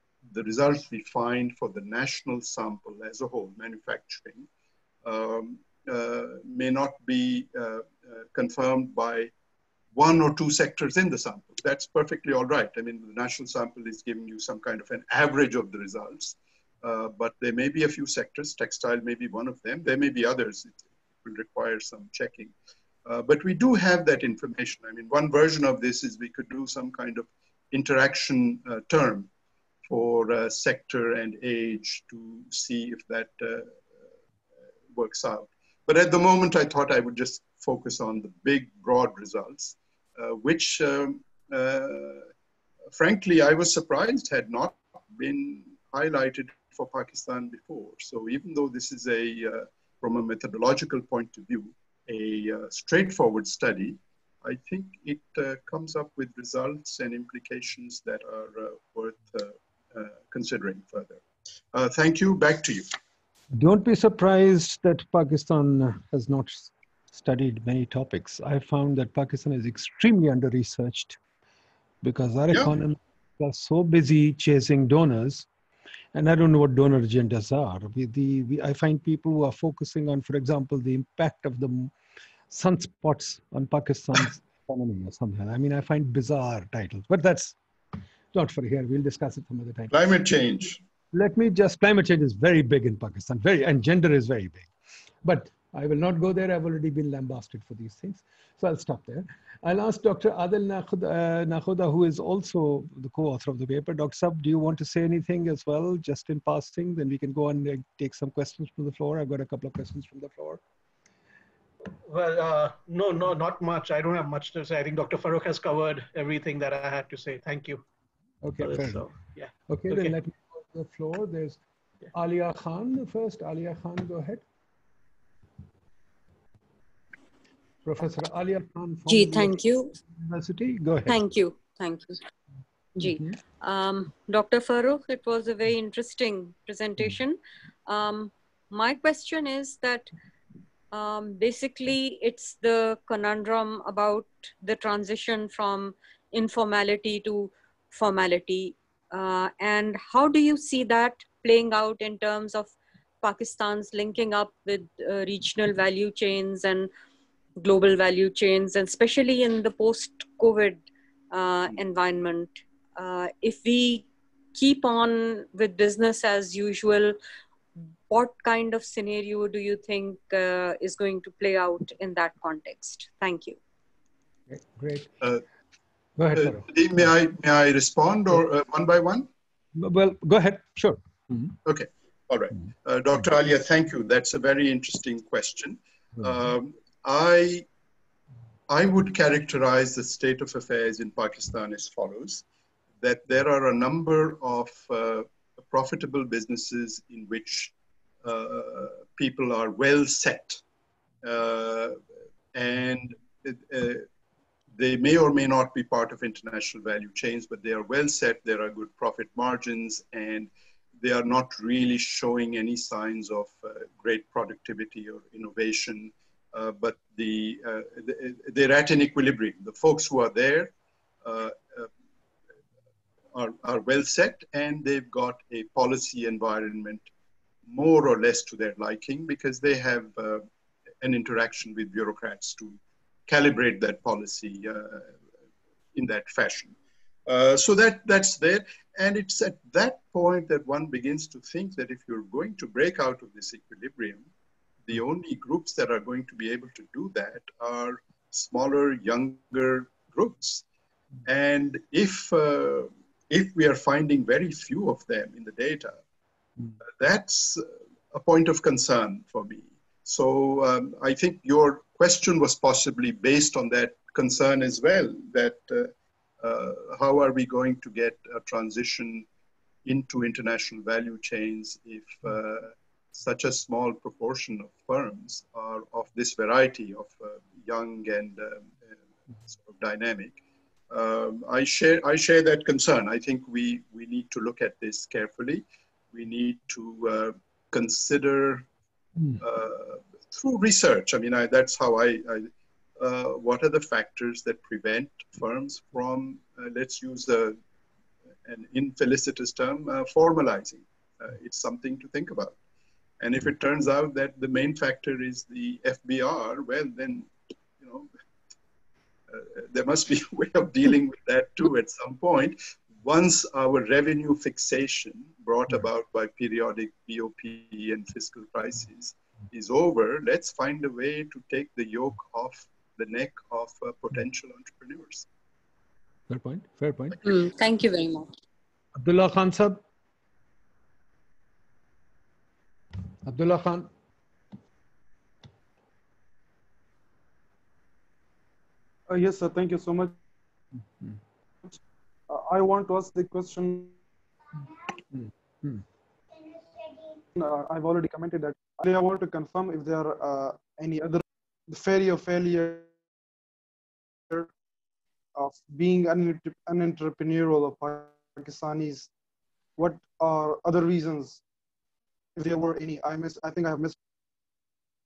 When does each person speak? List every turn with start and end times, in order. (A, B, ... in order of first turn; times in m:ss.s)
0:00.3-0:04.5 A
0:05.0-0:09.3 A
0:09.9-0:22.5 A
0:23.0-0:29.3 A
0:29.8-0:33.8 A
0:34.9-0:42.3 A
0:42.9-1:01.2 A
1:01.7-1:02.9 A
1:03.5-1:11.2 B
1:12.0-1:15.5 B
1:16.1-1:21.9 B
1:22.5-1:27.6 B
1:28.3-1:29.9 B
1:29.9-1:30.8 A
1:31.1-1:34.7 B
1:35.2-1:50.6 B
1:52.0-1:57.8 C
1:58.4-1:59.0 B
1:58.6-2:00.1 C
1:59.7-2:01.6 B
2:02.1-2:04.4 B
2:07.8-2:11.2 B
2:09.1-2:09.9 D
2:11.1-2:12.2 D
2:13.0-2:20.1 D
2:13.0-2:13.4 B
2:20.9-2:36.9 D
2:37.6-2:47.2 D
2:48.1-2:53.6 D
2:54.5-2:55.1 B
2:56.2-2:56.6 B
2:56.3-2:59.3 A
2:59.7-3:01.5 B
3:01.6-3:07.7 A
3:08.7-3:12.4 A
3:13.0-3:20.6 A
3:21.2-3:22.0 A
3:22.5-3:24.0 A
3:24.8-3:30.5 A
3:31.0-3:40.7 A
3:41.2-3:41.9 A
3:43.3-3:47.0 A
3:47.6-3:50.4 A
3:51.0-3:55.1 A
3:55.9-3:56.7 A
3:57.3-4:04.3 A
4:04.8-4:10.6 A
4:11.2-4:16.0 A
4:17.0-4:29.3 A
4:29.8-4:38.8 A
4:39.5-4:40.4 A
4:40.9-4:48.6 A
4:49.4-4:57.6 A
4:58.4-5:02.6 A
5:03.2-5:08.1 A
5:09.3-5:25.2 A
5:26.3-5:27.2 B
5:27.2-5:28.3 D
5:29.0-5:29.8 B
5:33.2-5:33.9 B
5:39.1-5:40.2 E
5:42.3-5:44.0 E
5:45.1-5:45.8 B
5:47.4-5:52.9 E
5:55.4-5:59.1 E
5:59.8-6:01.4 E
6:02.4-6:04.0 E